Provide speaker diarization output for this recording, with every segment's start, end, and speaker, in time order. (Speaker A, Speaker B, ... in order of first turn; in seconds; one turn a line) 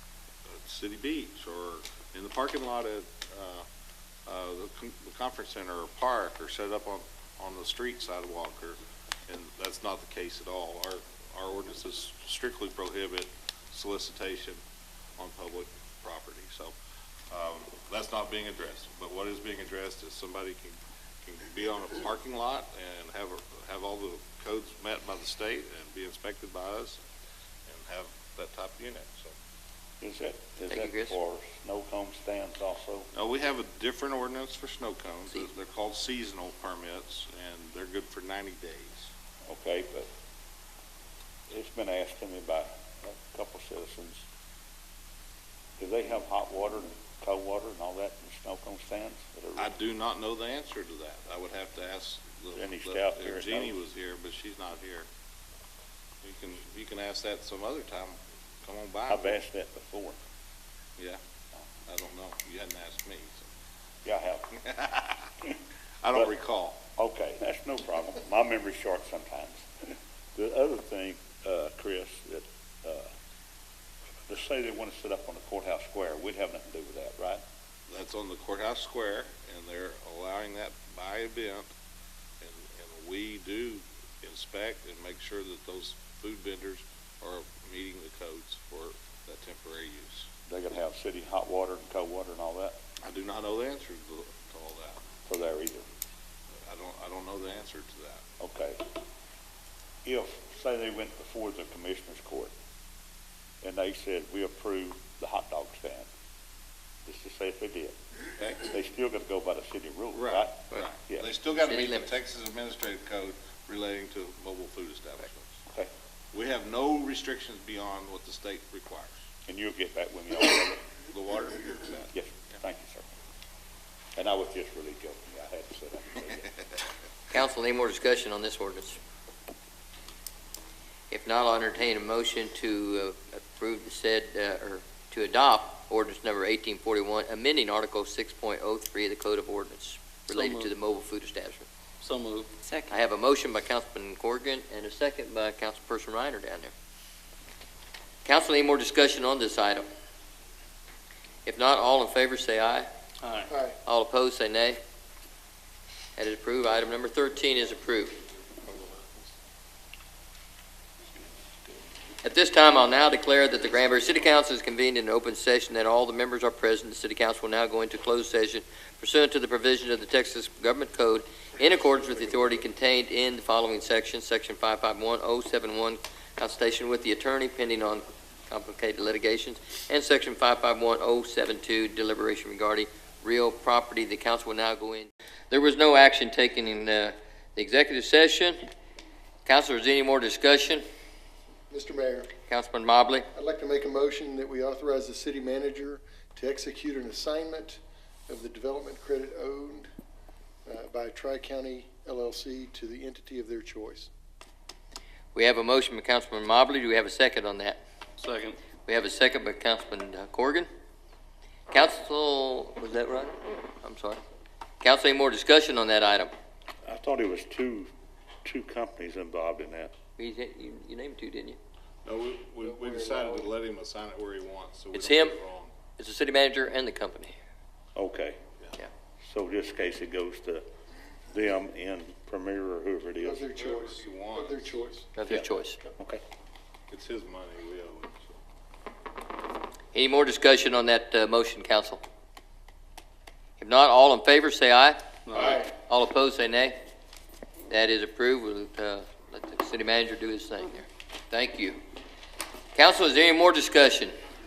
Speaker A: 0.5-3.6
Speaker A: 4.2-14.6
Speaker A: 15.2-16.8
Speaker A: 17.3-27.0
Speaker A: 27.7-29.3
Speaker B: 30.0-33.1
Speaker C: 30.7-31.1
Speaker A: 33.1-39.1
Speaker B: 39.5-40.1
Speaker B: 41.5-44.2
Speaker B: 45.8-49.7
Speaker A: 49.6-55.1
Speaker B: 52.5-53.7
Speaker A: 56.2-59.4
Speaker B: 59.1-60.2
Speaker A: 61.9-63.5
Speaker B: 64.0-64.6
Speaker A: 64.6-65.3
Speaker A: 66.0-66.8
Speaker B: 67.0-73.1
Speaker B: 74.3-77.4
Speaker A: 77.9-81.7
Speaker A: 82.4-90.3
Speaker B: 90.5-92.8
Speaker A: 93.0-95.0
Speaker B: 95.3-95.9
Speaker A: 96.7-98.2
Speaker B: 98.4-98.8
Speaker B: 100.0-102.5
Speaker B: 103.6-106.1
Speaker B: 107.0-108.0
Speaker A: 108.4-108.6
Speaker B: 108.6-111.3
Speaker A: 110.1-115.5
Speaker C: 111.5-112.1
Speaker A: 116.3-119.2
Speaker B: 119.5-120.9
Speaker A: 121.1-122.1
Speaker B: 122.1-123.1
Speaker B: 124.2-126.5
Speaker C: 127.3-129.0
Speaker C: 131.1-141.7
Speaker D: 140.3-140.8
Speaker D: 142.0-142.9
Speaker C: 142.9-146.7
Speaker C: 148.2-149.9
Speaker C: 151.4-152.9
Speaker D: 153.2-153.5
Speaker E: 153.5-153.8
Speaker C: 153.8-154.8
Speaker C: 156.2-158.2
Speaker C: 162.2-188.7
Speaker C: 189.4-190.8
Speaker E: 191.7-192.3
Speaker C: 192.5-193.3
Speaker E: 193.3-199.9
Speaker E: 200.6-204.1
Speaker C: 205.3-207.8
Speaker D: 208.2-208.6
Speaker C: 208.8-210.7
Speaker C: 211.7-214.2
Speaker C: 214.8-216.3
Speaker B: 216.8-217.9
Speaker B: 218.4-219.9
Speaker C: 220.2-221.6
Speaker A: 222.0-225.7
Speaker E: 222.6-223.5
Speaker C: 224.9-225.3
Speaker C: 226.0-227.3
Speaker B: 227.9-228.4
Speaker B: 229.2-230.6
Speaker B: 231.3-233.4
Speaker E: 233.2-235.9
Speaker A: 233.5-234.8
Speaker C: 235.2-235.8
Speaker A: 236.9-238.3
Speaker C: 239.9-242.0
Speaker C: 243.6-246.8
Speaker D: 245.3-245.6
Speaker C: 247.7-251.8
Speaker C: 252.8-254.1